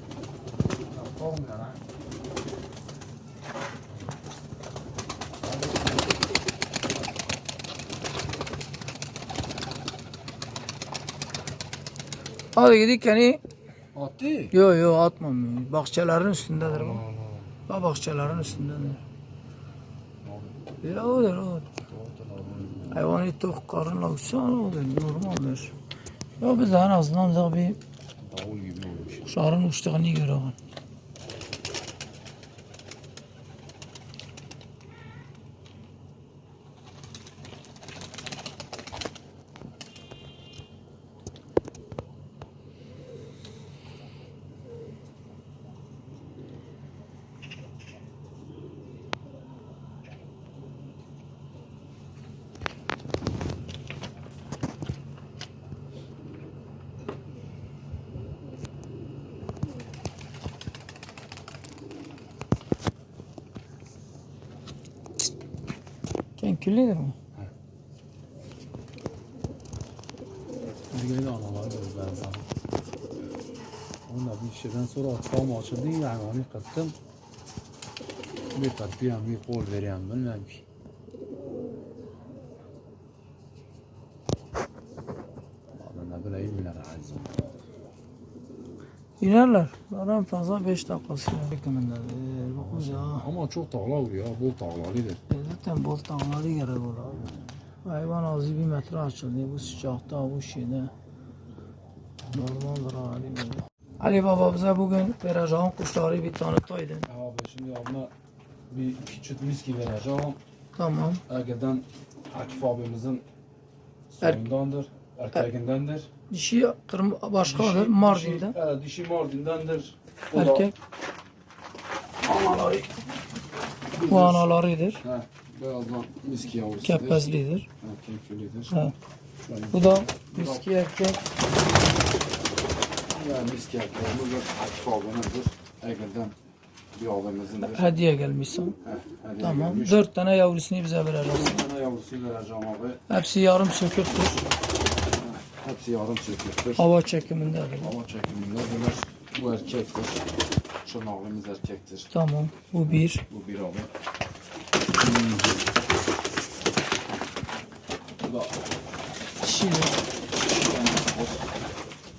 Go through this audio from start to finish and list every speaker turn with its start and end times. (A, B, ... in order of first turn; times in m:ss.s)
0:00.8-0:01.8 A
0:05.5-0:06.0 A
0:12.5-0:13.4 B
0:13.9-0:14.5 A
0:14.5-0:17.0 B
0:16.6-0:17.5 A
0:17.7-0:19.0 B
0:20.2-0:20.5 A
0:20.8-0:21.7 B
0:21.9-0:23.1 A
0:22.9-0:25.7 B
0:26.4-0:27.8 B
0:28.2-0:29.3 A
0:29.2-0:30.6 B
1:06.4-1:07.2 B
1:10.9-1:12.4 A
1:14.0-1:16.9 A
1:18.5-1:20.6 A
1:25.8-1:27.4 A
1:29.2-1:33.3 B
1:32.6-1:35.2 A
1:35.3-1:40.9 B
1:42.3-1:47.1 B
1:47.0-1:48.1 A
1:48.7-1:50.4 A
1:50.8-1:51.2 B
1:51.3-1:53.2 A
1:54.1-1:56.1 A
1:56.3-1:58.5 B
1:57.4-2:00.7 A
2:00.3-2:00.7 B
2:02.2-2:02.9 A
2:03.9-2:04.5 A
2:04.0-2:05.0 B
2:05.0-2:08.7 A
2:06.8-2:07.7 B
2:08.7-2:08.9 B
2:09.4-2:10.6 A
2:09.7-2:11.2 B
2:13.1-2:16.3 A
2:16.9-2:18.0 A
2:17.6-2:18.8 B
2:18.8-2:20.0 A
2:19.4-2:21.6 B
2:21.2-2:23.0 A
2:23.1-2:24.4 B
2:25.2-2:26.9 A
2:26.8-2:27.9 B
2:27.8-2:30.2 A
2:30.8-2:32.1 A
2:32.1-2:33.2 B
2:32.8-2:33.9 A
2:34.9-2:35.6 A
2:38.2-2:38.5 A
2:39.4-2:40.0 B
2:40.4-2:41.4 A